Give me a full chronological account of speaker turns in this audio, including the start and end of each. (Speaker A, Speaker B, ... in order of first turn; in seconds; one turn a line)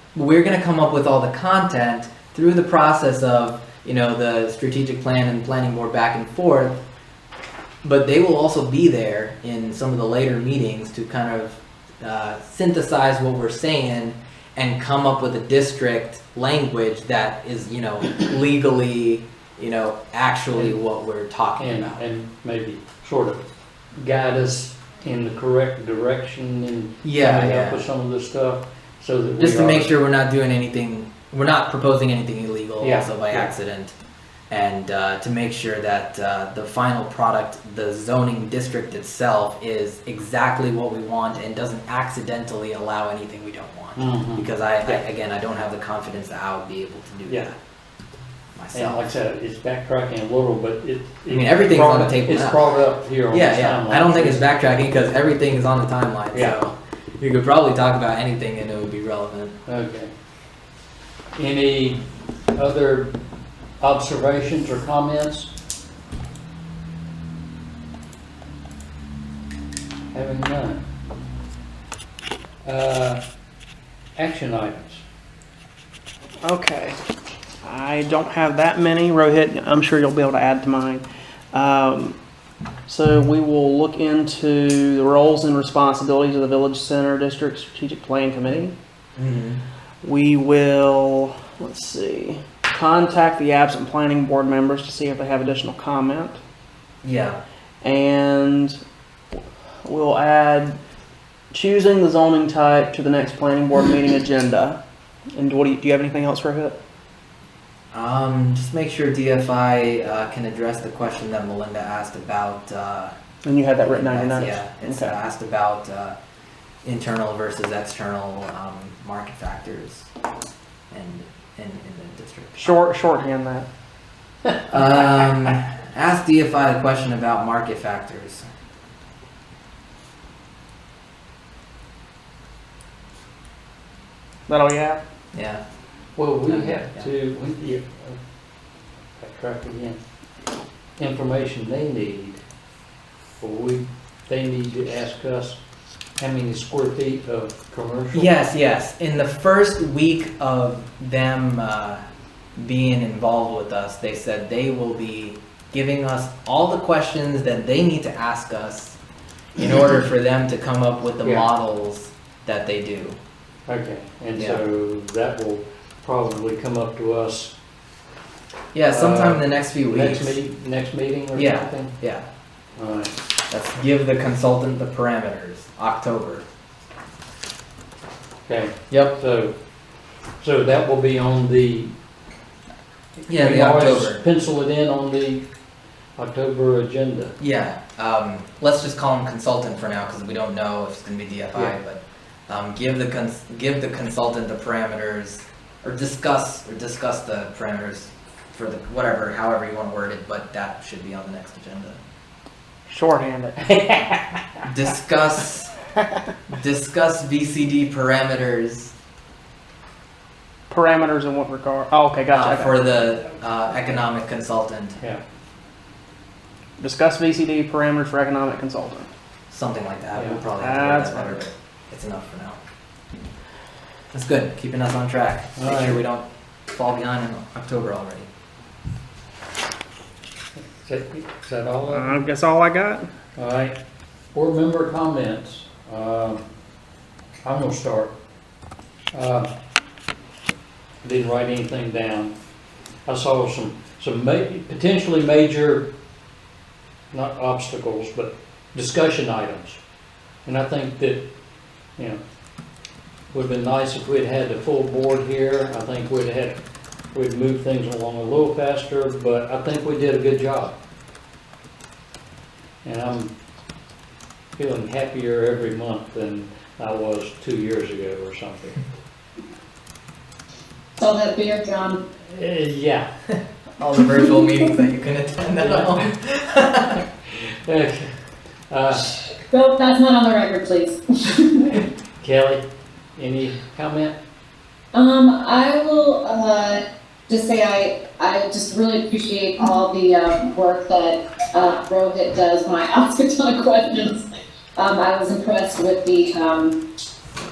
Speaker A: 0.1-6.8
Speaker A: 7.8-22.0
Speaker B: 21.6-23.4
Speaker B: 24.0-29.9
Speaker A: 27.0-27.8
Speaker A: 29.4-33.9
Speaker B: 32.8-33.5
Speaker A: 34.5-47.5
Speaker B: 44.0-45.0
Speaker A: 48.5-49.1
Speaker B: 48.7-54.5
Speaker A: 51.3-52.6
Speaker A: 53.3-59.6
Speaker B: 56.3-56.6
Speaker B: 59.7-60.1
Speaker B: 61.4-62.0
Speaker B: 62.5-63.1
Speaker B: 63.8-65.5
Speaker B: 70.1-70.8
Speaker B: 72.7-73.2
Speaker B: 74.2-75.0
Speaker C: 76.4-77.0
Speaker C: 77.6-82.2
Speaker C: 82.9-88.7
Speaker A: 89.2-89.6
Speaker C: 90.0-96.4
Speaker A: 97.0-97.4
Speaker C: 97.8-98.8
Speaker C: 99.3-100.8
Speaker C: 101.5-104.8
Speaker C: 105.3-106.8
Speaker A: 107.9-113.1
Speaker C: 113.5-115.2
Speaker A: 113.9-116.2
Speaker A: 116.8-120.1
Speaker A: 120.9-122.7
Speaker C: 122.5-123.7
Speaker A: 124.7-128.4
Speaker C: 134.5-135.0
Speaker A: 135.3-135.6
Speaker B: 136.2-138.2
Speaker A: 136.5-137.1
Speaker B: 139.2-140.0
Speaker B: 141.0-142.4
Speaker B: 143.4-145.6
Speaker B: 146.2-148.3
Speaker A: 148.1-152.0
Speaker A: 152.6-159.0
Speaker A: 159.6-163.2
Speaker B: 163.7-167.5
Speaker A: 164.4-164.6
Speaker A: 168.7-170.4
Speaker B: 168.9-172.0
Speaker A: 171.3-172.2
Speaker B: 172.8-173.2
Speaker A: 173.5-176.4
Speaker B: 178.5-179.5
Speaker A: 178.9-179.2
Speaker B: 180.4-181.9
Speaker A: 183.3-184.2
Speaker B: 183.3-185.4
Speaker B: 186.2-187.4
Speaker A: 187.4-202.0
Speaker C: 202.9-203.6
Speaker B: 203.7-204.4
Speaker A: 204.7-205.7
Speaker A: 206.5-208.9
Speaker C: 210.7-212.8
Speaker A: 212.3-215.0
Speaker C: 216.8-219.1
Speaker A: 219.5-222.6
Speaker B: 220.2-220.4
Speaker C: 220.6-221.4
Speaker A: 224.1-228.3
Speaker B: 225.6-226.0
Speaker B: 230.6-232.2
Speaker C: 231.9-233.1
Speaker B: 233.4-233.8
Speaker B: 234.3-236.4
Speaker B: 237.4-238.1
Speaker B: 239.1-239.5
Speaker B: 241.0-242.3
Speaker B: 243.1-245.9
Speaker B: 247.1-249.8
Speaker B: 250.4-251.2
Speaker B: 253.3-256.6
Speaker B: 257.1-260.8
Speaker B: 262.8-263.3
Speaker B: 264.6-268.8
Speaker D: 271.0-272.0
Speaker B: 272.3-273.1
Speaker A: 273.3-277.0
Speaker B: 275.6-276.0
Speaker B: 277.3-278.1
Speaker B: 278.7-279.2
Speaker D: 279.4-281.8
Speaker B: 282.2-282.6
Speaker B: 283.2-284.2
Speaker D: 284.9-294.2
Speaker D: 294.8-296.8